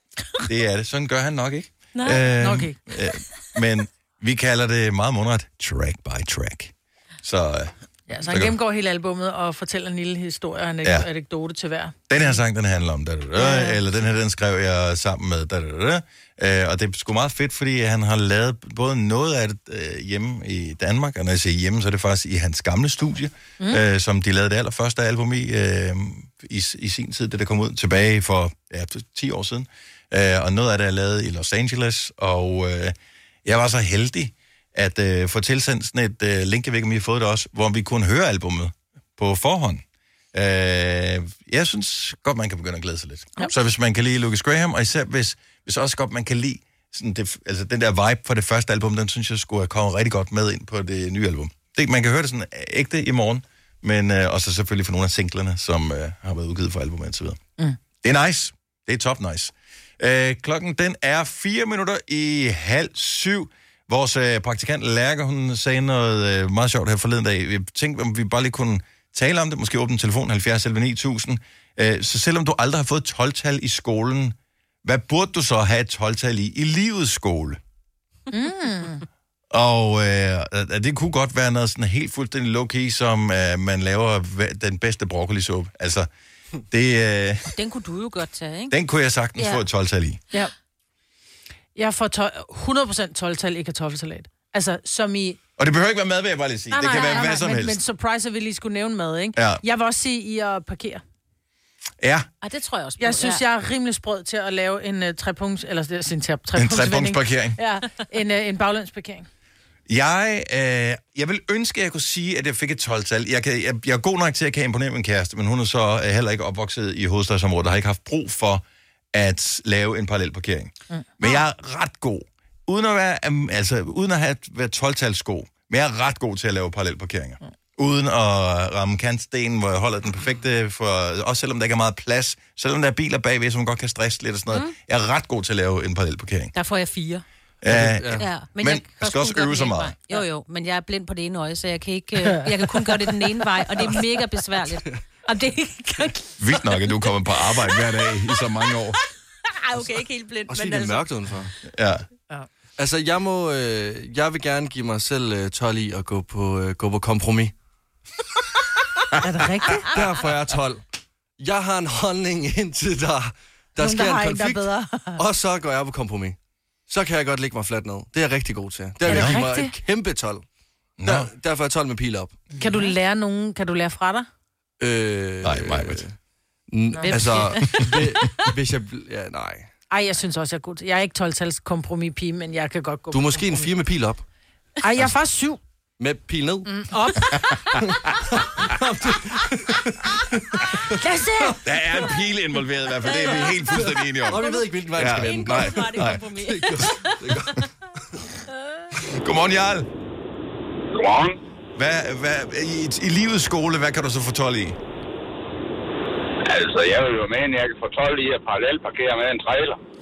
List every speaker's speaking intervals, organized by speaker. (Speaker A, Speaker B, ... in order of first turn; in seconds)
Speaker A: 0.4-7.7, 8.3-8.6, 12.1-39.8, 40.3-57.4, 58.0-77.6, 79.5-86.1, 86.7-87.5, 88.7-90.2, 95.6-97.8, 99.3-99.6, 102.0-102.3, 106.5-107.6, 109.9-136.5, 137.6-139.9, 146.4-149.0, 151.7-152.0, 169.0-169.4, 171.0-171.3, 175.4-176.0, 191.6-196.2, 199.0-199.9, 201.8-204.8
Speaker B: 2.0-2.8, 8.1-12.0, 13.4-13.8, 78.3-79.0, 91.8-95.4, 96.7-101.0, 103.0-109.3, 120.9-121.4, 159.2-160.0, 163.8-165.2, 169.1-169.7, 172.6-174.3, 177.0-177.5, 179.9-183.7, 184.8-185.6, 186.7-187.6, 191.0-191.5
Speaker C: 87.5-88.7, 89.4-89.6, 96.8-97.3, 102.4-103.4, 136.5-137.2, 138.1-146.3, 149.5-151.1, 177.1-177.6, 193.1-193.6, 194.4-197.2
Speaker D: 137.7-138.3, 150.5-151.5, 152.8-157.5, 159.8-160.8, 161.4-166.3, 166.9-170.4, 171.0-172.4, 174.8-176.1, 176.7-179.7, 183.1-184.2, 186.0-186.8, 188.4-192.0, 193.5-197.6
Speaker E: 200.9-201.4, 206.4-209.8